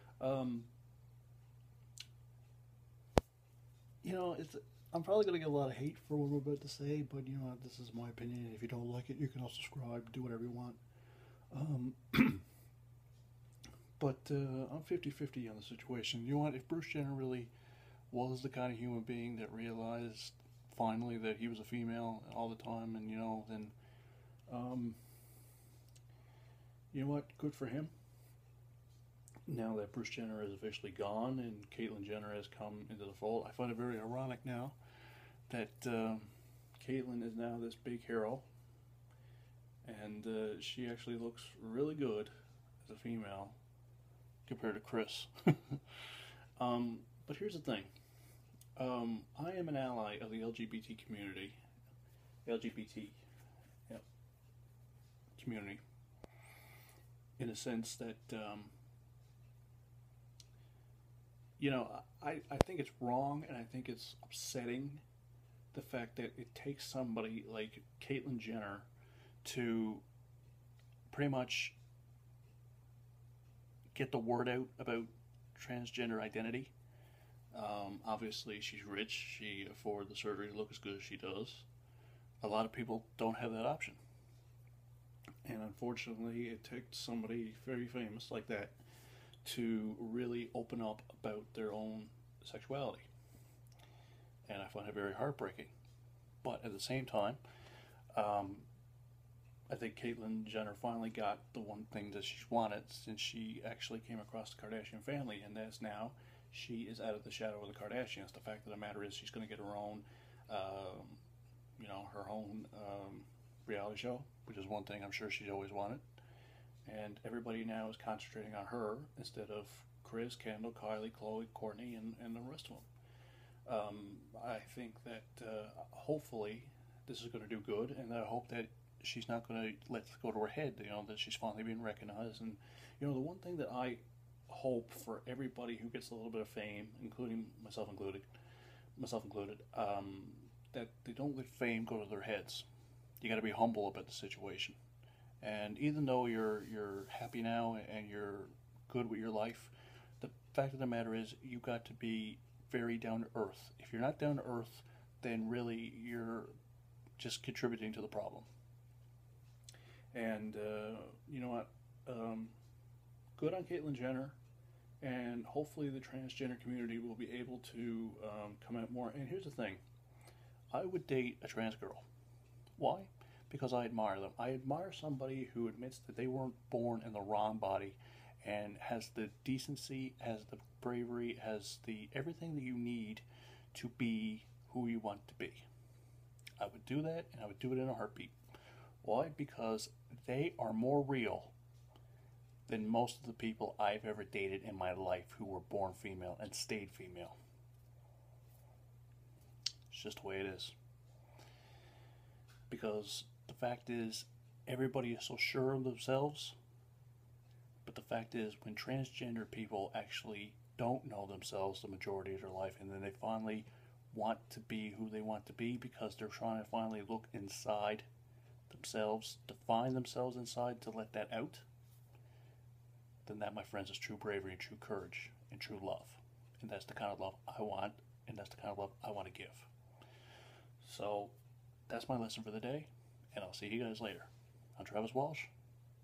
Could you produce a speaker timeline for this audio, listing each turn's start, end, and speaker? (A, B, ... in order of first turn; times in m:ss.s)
0:00.2-0:00.7 A
0:04.0-0:10.8 A
0:11.5-0:12.4 A
0:14.0-0:17.5 A
0:18.1-0:23.7 A
0:24.5-0:25.0 A
0:26.9-0:27.9 A
0:29.5-0:34.8 A
0:35.5-0:38.4 A
0:39.8-0:42.3 A
0:42.8-0:43.6 A
0:44.5-0:45.8 A
0:46.6-0:47.9 A
0:48.8-0:51.6 A
0:52.4-0:53.2 A
0:55.4-0:55.8 A
0:57.4-0:58.7 A
1:01.6-1:05.0 A
1:05.7-1:08.9 A
1:09.4-1:10.0 A
1:11.1-1:11.8 A
1:13.9-1:16.7 A
1:17.5-1:21.7 A
1:22.4-1:24.0 A
1:25.4-1:28.8 A
1:29.4-1:33.1 A
1:34.4-1:35.7 A
1:36.4-1:37.4 A
1:38.1-1:38.7 A
1:39.7-1:51.2 A
1:51.8-1:56.0 A
1:56.8-2:02.9 A
2:03.7-2:18.3 A
2:19.0-2:22.7 A
2:23.2-2:24.8 A
2:25.4-2:36.5 A
2:37.2-2:38.5 A
2:40.1-2:42.5 A
2:43.4-2:44.4 A
2:45.0-2:49.8 A
2:50.7-2:52.0 A
2:52.8-3:05.6 A
3:06.6-3:08.4 A
3:09.0-3:11.5 A
3:12.7-3:17.4 A
3:19.9-3:20.7 A
3:22.7-3:26.6 A
3:27.8-3:38.1 A
3:38.7-3:41.6 A
3:43.3-3:49.7 A
3:50.8-3:51.3 A
3:51.9-3:55.5 A